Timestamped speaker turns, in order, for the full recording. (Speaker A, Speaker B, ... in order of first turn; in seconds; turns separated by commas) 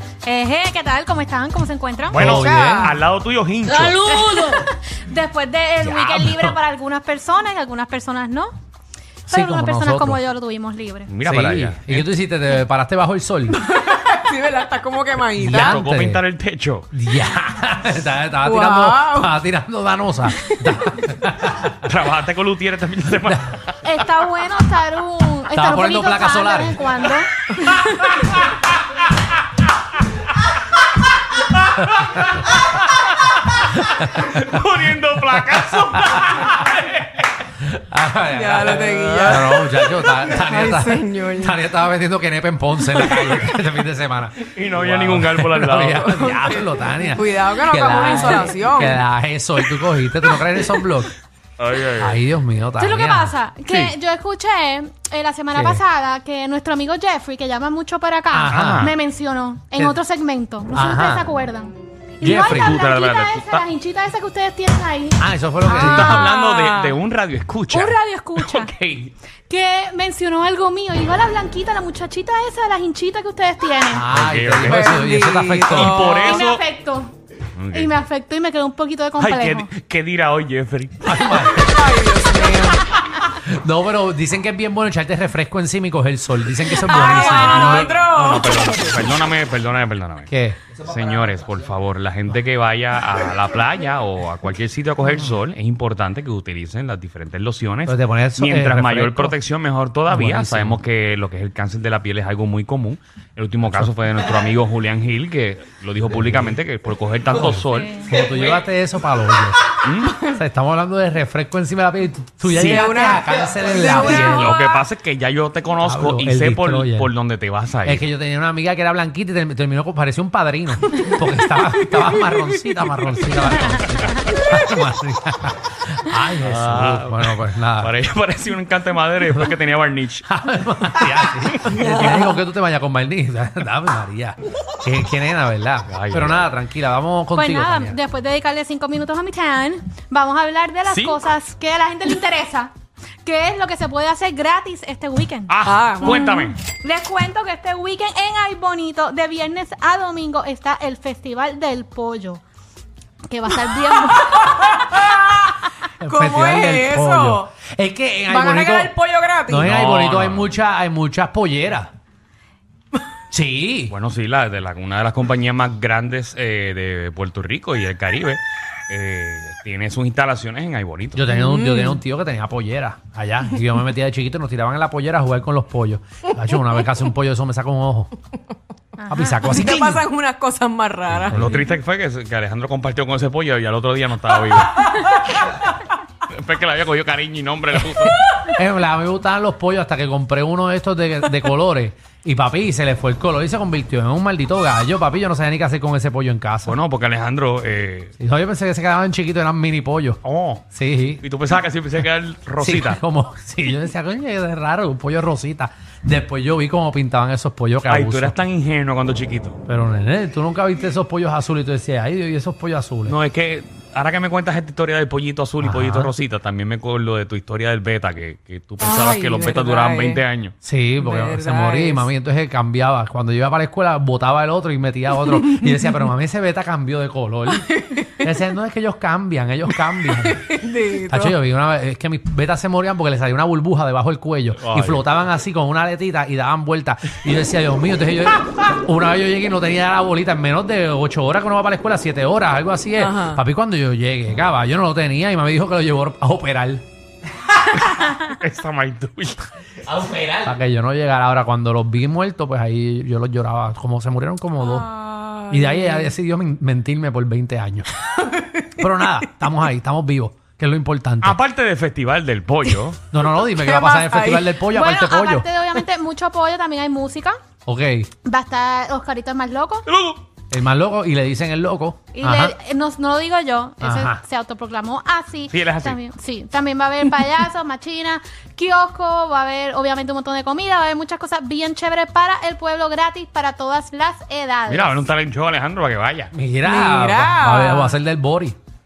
Speaker A: 0.2-2.2, Speaker B: 2.1-4.0, Speaker C: 2.1-2.9, Speaker D: 2.3-2.9, Speaker A: 3.6-8.5, Speaker C: 5.8-6.6, Speaker A: 9.3-11.1, Speaker C: 9.3-10.2, Speaker B: 11.1-12.1, Speaker C: 11.2-13.6, Speaker D: 13.7-15.7, Speaker C: 15.4-16.2, Speaker B: 15.5-16.9, Speaker C: 16.9-21.9, Speaker D: 18.5-19.2, Speaker B: 21.8-23.8, Speaker A: 23.8-28.2, Speaker C: 25.5-26.9, Speaker B: 31.4-37.2, Speaker C: 35.4-36.4, Speaker C: 37.6-51.1, Speaker D: 38.3-41.5, Speaker B: 39.0-39.4, Speaker B: 44.4-46.1, Speaker D: 46.0-49.0, Speaker B: 51.6-52.2, Speaker C: 52.0-53.4, Speaker A: 52.8-65.2, Speaker C: 55.5-55.8, Speaker C: 58.3-58.9, Speaker B: 58.5-58.9, Speaker C: 60.7-61.3, Speaker C: 62.2-62.8, Speaker B: 62.3-63.6, Speaker C: 65.2-66.3, Speaker D: 65.7-66.9, Speaker B: 65.7-69.1, Speaker A: 67.7-68.7, Speaker A: 69.5-74.1, Speaker C: 73.9-76.1, Speaker B: 74.1-74.9, Speaker D: 74.7-75.7, Speaker B: 75.7-76.6, Speaker A: 75.8-77.1, Speaker B: 77.5-78.0, Speaker A: 77.7-79.7, Speaker B: 79.2-81.5, Speaker C: 81.0-81.9, Speaker D: 81.6-82.8, Speaker C: 83.2-87.9, Speaker A: 86.9-87.9, Speaker B: 87.0-108.1, Speaker D: 87.8-88.6, Speaker C: 90.3-90.6, Speaker C: 97.8-99.4, Speaker C: 100.1-100.8, Speaker C: 106.1-106.5, Speaker C: 107.4-109.6, Speaker A: 107.7-108.1, Speaker B: 109.8-110.2, Speaker C: 110.2-114.6, Speaker B: 112.4-112.9, Speaker D: 112.6-114.6, Speaker B: 113.8-118.0, Speaker C: 115.8-117.1, Speaker C: 117.8-127.9, Speaker B: 126.4-130.2, Speaker C: 130.2-138.0, Speaker B: 135.9-136.5, Speaker A: 137.3-142.7, Speaker B: 140.9-141.2, Speaker A: 143.2-152.4, Speaker B: 145.5-146.6, Speaker D: 145.7-146.2, Speaker A: 153.3-154.7, Speaker D: 154.4-155.5, Speaker C: 156.0-158.9, Speaker D: 156.1-157.4, Speaker D: 158.3-159.6, Speaker C: 159.5-161.9, Speaker B: 159.6-160.5, Speaker C: 163.3-163.9, Speaker B: 163.9-171.4, Speaker C: 171.2-178.1, Speaker A: 179.0-179.5, Speaker C: 179.1-180.0, Speaker D: 179.5-181.3, Speaker B: 181.2-185.2, Speaker C: 181.3-181.6, Speaker B: 186.3-188.2, Speaker C: 187.8-196.8, Speaker B: 196.7-198.1, Speaker C: 198.2-200.2, Speaker B: 200.2-200.6, Speaker C: 200.7-201.2, Speaker B: 201.2-203.0, Speaker C: 202.6-208.4, Speaker B: 207.8-209.6, Speaker C: 209.7-213.2, Speaker B: 213.0-220.5, Speaker C: 215.6-216.1, Speaker D: 218.8-220.2, Speaker C: 220.6-246.8, Speaker D: 221.1-222.0, Speaker D: 230.2-231.3, Speaker B: 234.6-235.1, Speaker D: 243.0-243.4, Speaker B: 247.7-250.4, Speaker C: 250.4-254.9, Speaker D: 254.7-255.8, Speaker C: 255.5-257.9, Speaker D: 258.1-258.7, Speaker C: 258.8-261.4, Speaker B: 261.2-263.0, Speaker C: 263.1-265.4, Speaker D: 263.6-264.5, Speaker A: 264.7-267.4, Speaker C: 267.7-268.1, Speaker A: 268.2-269.8, Speaker B: 269.9-270.2, Speaker C: 270.5-272.5, Speaker A: 272.1-285.0, Speaker C: 273.8-274.2, Speaker B: 275.5-276.0, Speaker B: 284.7-286.3, Speaker C: 286.3-288.6, Speaker D: 286.6-287.8